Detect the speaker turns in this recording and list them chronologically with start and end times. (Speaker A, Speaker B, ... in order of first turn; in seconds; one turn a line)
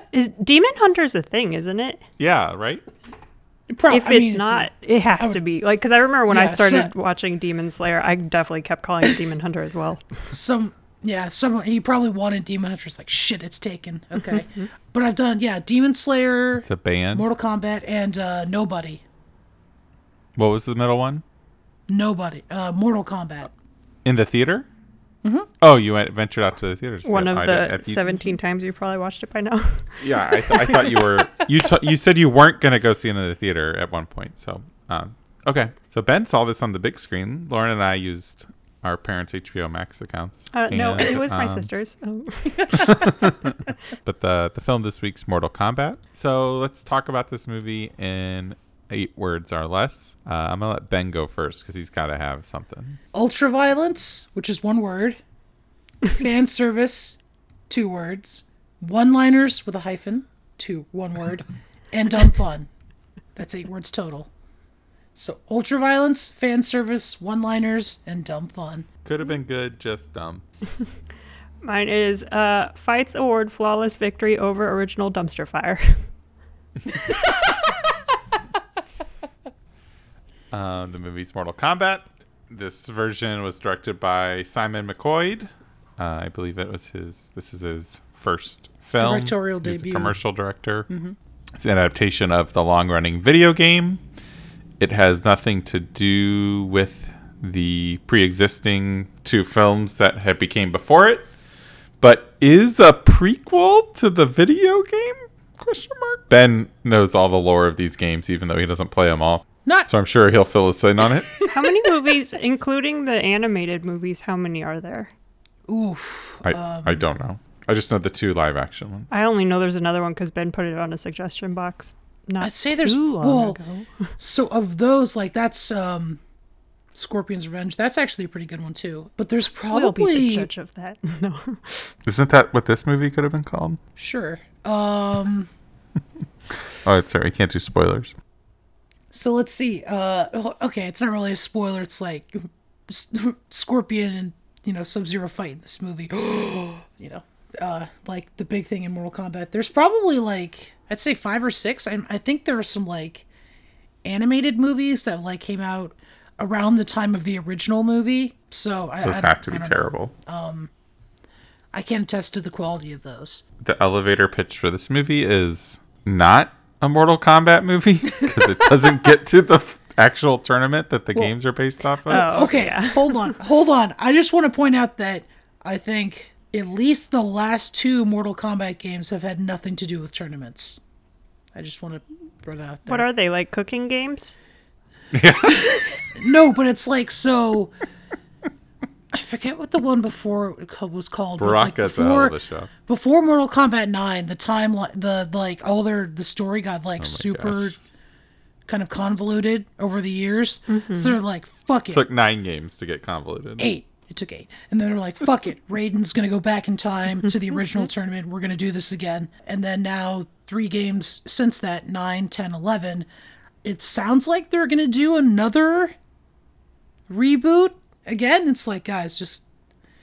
Speaker A: 0.1-2.0
Speaker B: 2.2-2.8
Speaker C: 3.7-5.4
Speaker A: 3.9-10.2
Speaker C: 6.3-6.9
Speaker C: 10.3-19.0
Speaker A: 14.3-14.6
Speaker B: 16.6-17.3
Speaker B: 20.4-21.2
Speaker C: 21.9-23.5
Speaker B: 24.0-24.6
Speaker C: 25.2-25.5
Speaker B: 25.6-28.1
Speaker A: 27.0-31.1
Speaker B: 30.0-41.7
Speaker A: 40.5-42.9
Speaker C: 42.5-43.5
Speaker B: 42.7-53.0
Speaker C: 53.1-55.2
Speaker C: 56.0-62.7
Speaker C: 63.4-64.3
Speaker C: 65.1-68.9
Speaker B: 69.0-70.4
Speaker A: 71.6-76.0
Speaker B: 80.5-90.9
Speaker C: 89.0-90.2
Speaker C: 90.9-91.2
Speaker B: 91.5-94.0
Speaker B: 94.8-101.3
Speaker B: 102.0-111.4
Speaker C: 109.6-109.9
Speaker C: 111.4-111.9
Speaker A: 111.5-115.1
Speaker C: 115.7-117.0
Speaker B: 116.4-119.1
Speaker A: 119.1-124.1
Speaker C: 122.4-123.6
Speaker C: 124.2-126.2
Speaker C: 126.9-130.5
Speaker A: 129.7-131.9
Speaker B: 132.1-133.8
Speaker C: 133.9-135.5
Speaker B: 136.7-138.1
Speaker C: 139.1-153.3
Speaker C: 154.0-160.7
Speaker B: 159.0-160.1
Speaker C: 161.7-163.4
Speaker B: 163.6-172.5
Speaker C: 168.2-168.7
Speaker C: 172.1-180.8
Speaker A: 172.1-173.3
Speaker C: 181.5-183.1
Speaker A: 182.9-184.3
Speaker B: 185.1-185.7
Speaker C: 185.4-187.7
Speaker C: 189.1-192.3
Speaker B: 191.4-192.7
Speaker C: 192.9-197.7
Speaker B: 197.0-197.8
Speaker C: 198.7-202.0
Speaker A: 200.7-201.2
Speaker B: 201.9-203.7
Speaker C: 203.6-213.1
Speaker C: 213.6-215.9
Speaker C: 217.1-219.4